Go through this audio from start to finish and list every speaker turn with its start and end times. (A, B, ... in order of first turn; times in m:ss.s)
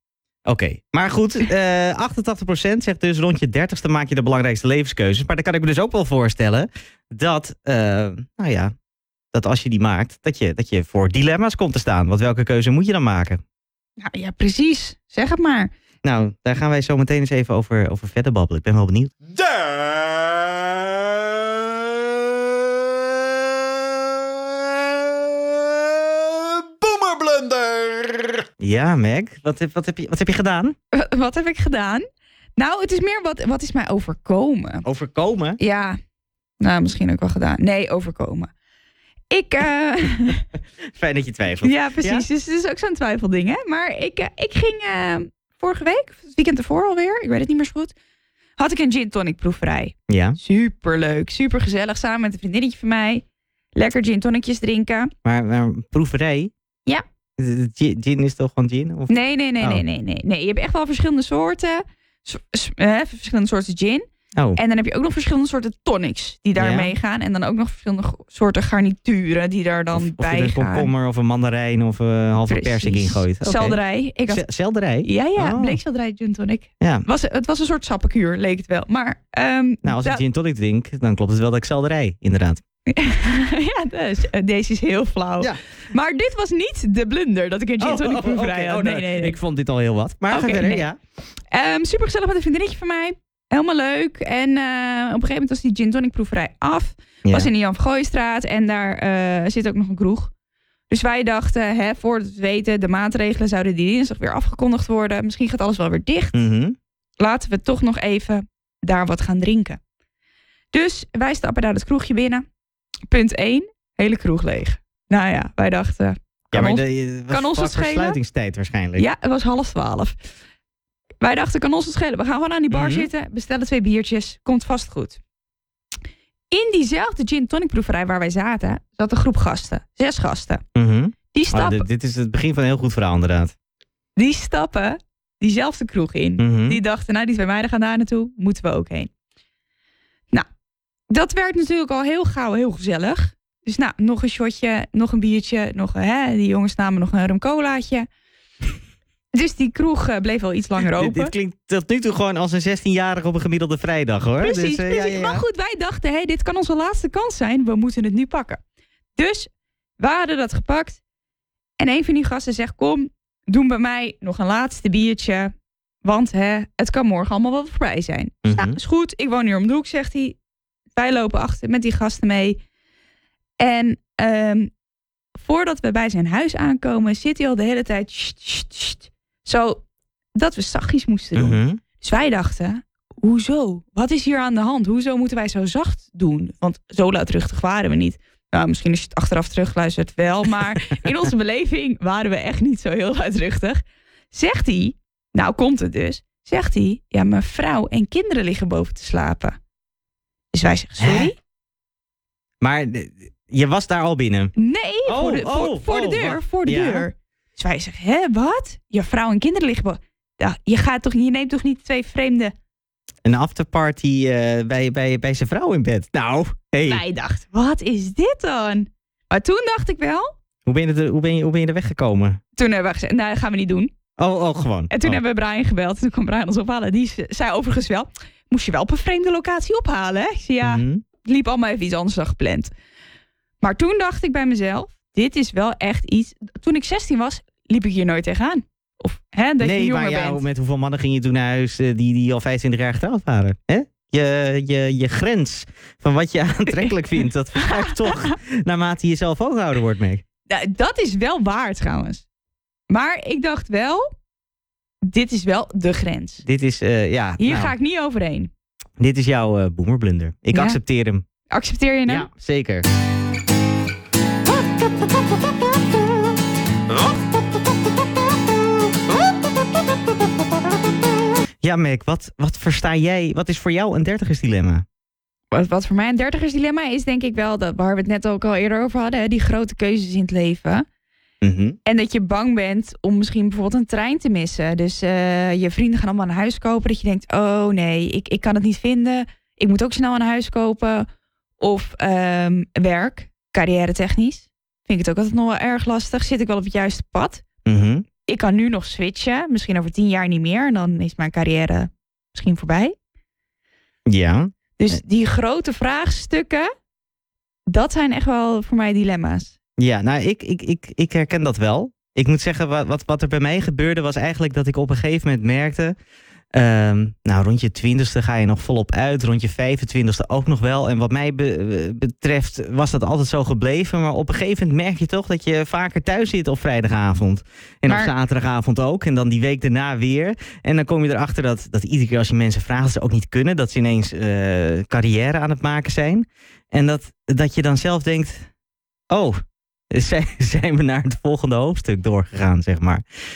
0:00.5-0:08.7 A
0:09.3-0:13.4 A
0:14.0-0:15.7 B
0:16.0-0:19.1 A
0:19.3-0:28.4 C
0:28.6-0:30.8 A
0:30.9-0:32.1 B
0:32.6-0:34.9 B
0:34.8-0:35.6 A
0:35.6-0:36.0 B
0:36.6-0:38.5 B
0:39.3-0:40.4 B
0:40.9-0:42.2 A
0:41.6-0:47.9 B
0:48.6-0:53.2 B
0:50.1-0:50.4 A
0:53.8-0:55.1 B
0:55.2-0:56.5 A
0:57.4-0:59.8 A
0:59.1-1:04.0 B
1:04.6-1:10.9 B
1:06.6-1:06.9 A
1:09.9-1:15.8 A
1:12.5-1:14.4 B
1:15.0-1:20.2 B
1:16.8-1:17.1 A
1:19.8-1:22.6 A
1:22.9-1:29.4 B
1:27.8-1:31.0 A
1:30.3-1:30.9 B
1:31.5-1:40.3 B
1:37.2-1:37.5 A
1:40.9-1:46.4 B
1:46.3-1:46.8 A
1:47.2-1:49.8 B
1:50.7-1:52.5 B
1:53.1-1:58.2 B
1:56.5-1:59.1 A
1:59.0-2:00.2 B
2:01.2-2:05.2 B
2:02.7-2:03.1 A
2:06.5-2:10.6 B
2:10.8-2:13.5 A
2:11.3-2:11.9 B
2:14.2-2:19.1 B
2:16.4-2:16.8 A
2:21.1-2:28.1 B
2:29.3-2:31.3 B
2:30.8-2:35.4 A
2:34.4-2:38.6 B
2:39.2-2:41.0 B
2:41.8-2:50.4 B
2:48.4-2:48.8 A
2:51.0-2:52.6 B
2:53.6-2:54.7 B
2:55.4-2:59.8 B
3:00.4-3:19.6 B
3:01.4-3:01.8 A
3:20.5-3:21.4 B
3:21.0-3:21.3 A
3:22.6-3:24.5 A
3:24.6-3:32.5 B
3:25.1-3:27.1 A
3:33.2-3:37.0 A
3:36.9-3:40.3 B
3:40.7-3:42.4 A
3:42.6-3:43.9 B
3:44.2-3:45.2 A
3:44.9-3:52.7 B
3:50.6-3:51.0 A
3:53.6-4:00.4 B
3:59.6-4:10.2 A
4:07.6-4:08.3 B
4:10.5-4:12.3 B
4:12.9-4:14.1 B
4:15.0-4:16.4 B
4:16.4-4:17.7 A
4:17.4-4:18.5 B
4:19.0-4:21.2 A
4:20.5-4:20.8 B
4:21.5-4:22.3 B
4:22.1-4:22.8 A
4:31.6-4:34.8 A
4:35.5-4:40.9 B
4:41.4-4:41.8 A
4:41.9-4:51.1 B
4:51.6-4:57.4 B
4:57.6-4:58.1 A
4:58.3-5:03.0 B
5:04.1-5:04.5 A
5:04.8-5:06.7 B
5:07.7-5:09.6 B
5:09.8-5:16.0 A
5:16.5-5:38.5 A
5:27.9-5:28.1 B
5:39.1-5:43.0 A